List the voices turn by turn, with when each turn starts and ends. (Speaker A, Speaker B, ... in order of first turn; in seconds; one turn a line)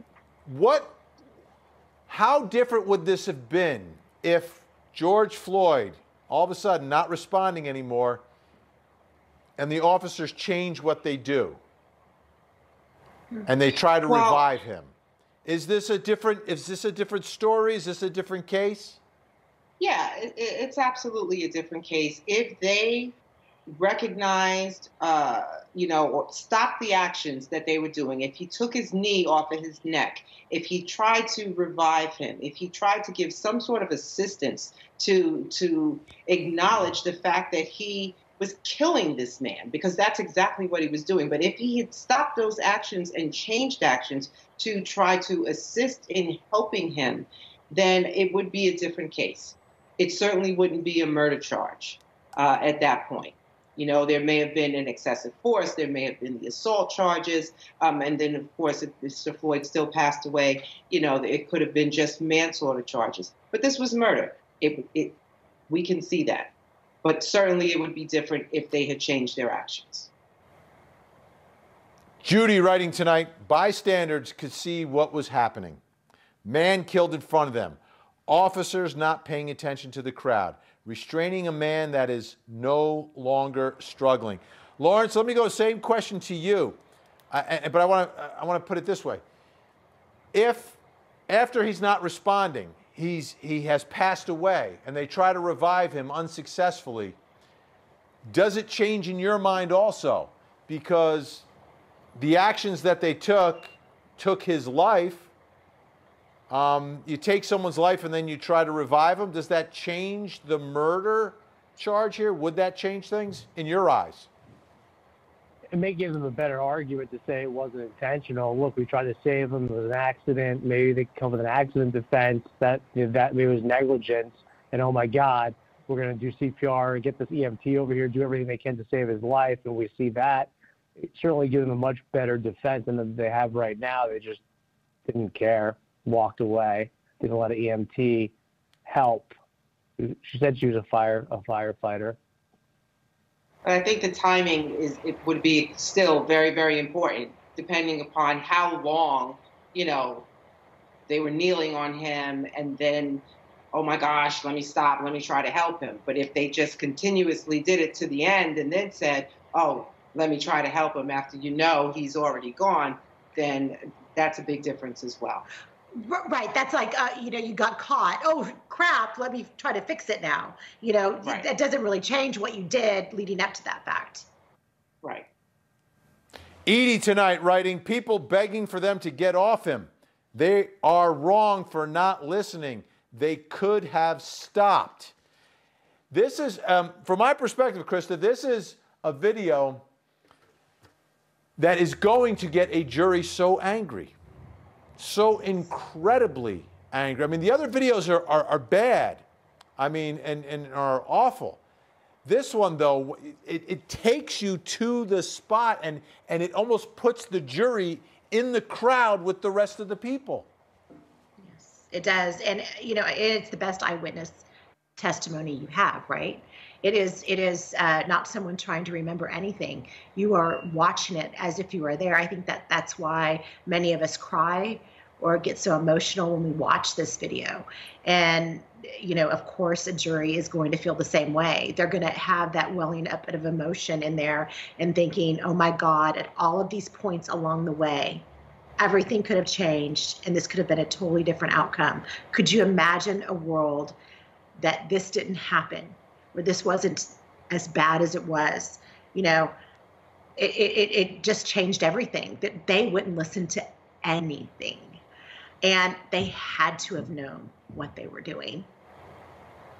Speaker A: 0.5-1.0
Speaker A: 2.1-8.2
Speaker A: 9.6-11.6
Speaker A: 13.5-14.9
Speaker B: 14.1-14.4
Speaker A: 15.4-19.0
Speaker B: 19.8-23.1
Speaker B: 23.7-65.2
Speaker B: 65.7-66.5
Speaker B: 67.0-70.1
Speaker A: 72.2-75.8
Speaker A: 76.4-86.8
Speaker A: 87.3-89.2
Speaker A: 90.3-97.2
Speaker A: 98.3-101.5
Speaker A: 102.2-105.3
Speaker A: 106.5-114.3
Speaker C: 115.7-130.5
Speaker C: 131.0-134.4
Speaker C: 135.1-138.3
Speaker C: 138.8-139.3
Speaker C: 140.0-142.2
Speaker B: 143.6-150.3
Speaker B: 151.1-165.4
Speaker D: 166.0-174.2
Speaker B: 175.0-175.3
Speaker A: 176.7-185.1
Speaker A: 186.1-189.8
Speaker A: 191.6-194.1
Speaker A: 195.0-199.2
Speaker A: 199.8-201.6
Speaker A: 202.2-210.5
Speaker D: 211.4-214.4
Speaker D: 215.0-238.2
Speaker D: 238.8-244.0
Speaker D: 244.6-249.5
Speaker D: 250.4-255.0
Speaker D: 255.6-258.7